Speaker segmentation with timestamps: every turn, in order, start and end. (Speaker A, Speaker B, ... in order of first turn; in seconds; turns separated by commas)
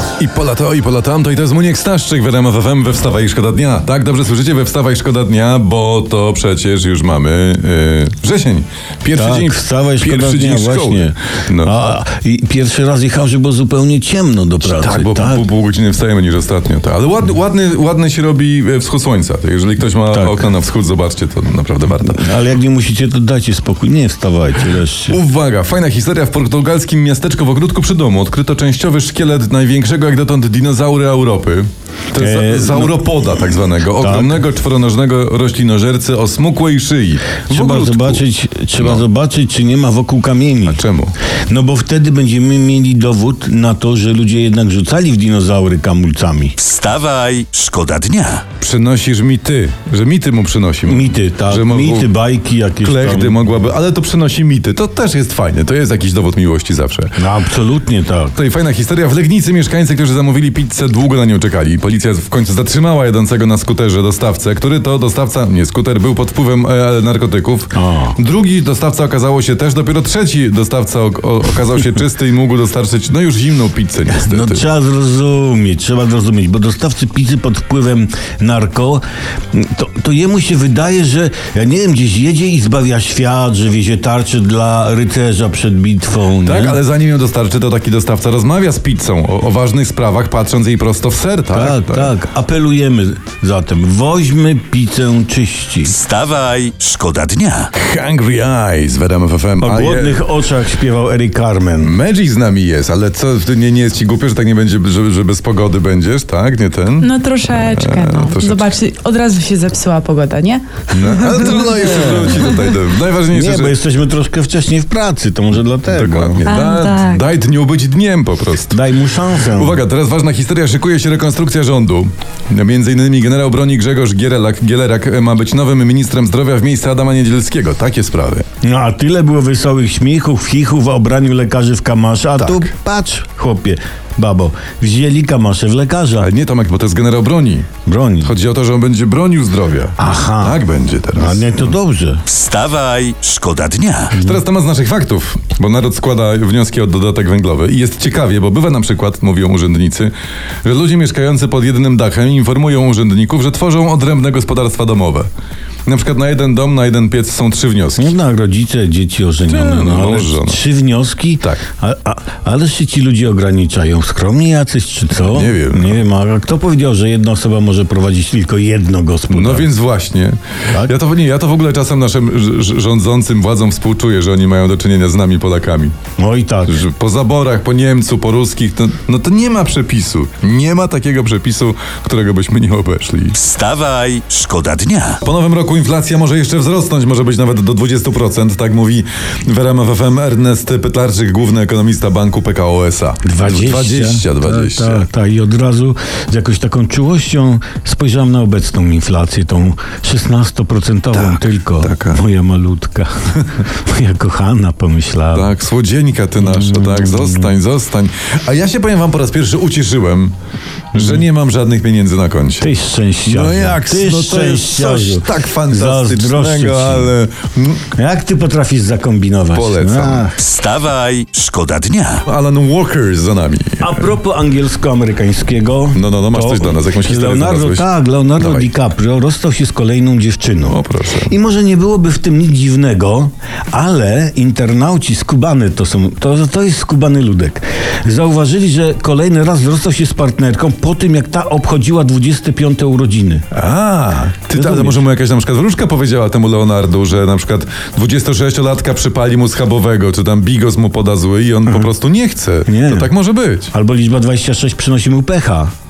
Speaker A: 0.2-11.9, Speaker B: 9.1-15.4, Speaker A: 14.6-22.3, Speaker B: 20.1-20.5, Speaker B: 22.0-25.2, Speaker A: 25.1-39.1, Speaker B: 32.2-33.1, Speaker B: 34.0-34.4, Speaker B: 37.5-40.8, Speaker A: 40.6-41.1, Speaker B: 41.5-46.6, Speaker C: 46.6-48.5, Speaker A: 48.6-52.1, Speaker B: 50.9-53.4, Speaker A: 52.8-57.2, Speaker B: 57.2-58.4, Speaker A: 58.4-74.7, Speaker B: 67.8-68.2, Speaker B: 74.1-86.8, Speaker A: 86.4-92.1, Speaker B: 91.5-96.0, Speaker C: 95.8-97.7, Speaker A: 97.7-100.3, Speaker B: 99.6-102.0, Speaker A: 101.8-108.7, Speaker D: 107.0-112.6, Speaker A: 110.9-113.8, Speaker B: 111.9-112.2, Speaker B: 113.3-116.5, Speaker A: 115.9-118.8, Speaker D: 116.5-117.2, Speaker B: 118.7-119.8, Speaker A: 119.5-128.4, Speaker B: 128.6-136.3, Speaker A: 132.4-132.7, Speaker A: 136.2-141.7, Speaker B: 137.8-138.3, Speaker B: 140.0-140.6, Speaker B: 141.2-142.2, Speaker C: 142.3-144.2, Speaker A: 144.1-155.3, Speaker A: 155.9-158.1, Speaker B: 158.0-169.7, Speaker A: 159.4-160.6, Speaker A: 165.1-166.0, Speaker A: 169.3-175.9, Speaker B: 176.2-176.8, Speaker A: 176.7-183.4, Speaker C: 183.3-185.2, Speaker A: 185.2-195.1, Speaker B: 193.2-205.5, Speaker A: 201.1-202.2, Speaker A: 205.3-210.3, Speaker B: 206.4-207.5, Speaker A: 210.9-212.7, Speaker B: 210.9-211.2, Speaker B: 212.6-217.2, Speaker A: 213.2-217.9, Speaker B: 217.9-220.4, Speaker A: 219.5-220.3, Speaker C: 220.4-222.2, Speaker A: 222.2-224.1, Speaker B: 223.8-243.4, Speaker A: 225.9-228.8, Speaker A: 230.7-231.3, Speaker A: 243.5-253.7, Speaker B: 244.5-245.0, Speaker B: 251.7-251.9, Speaker B: 252.7-253.1, Speaker B: 253.7-255.7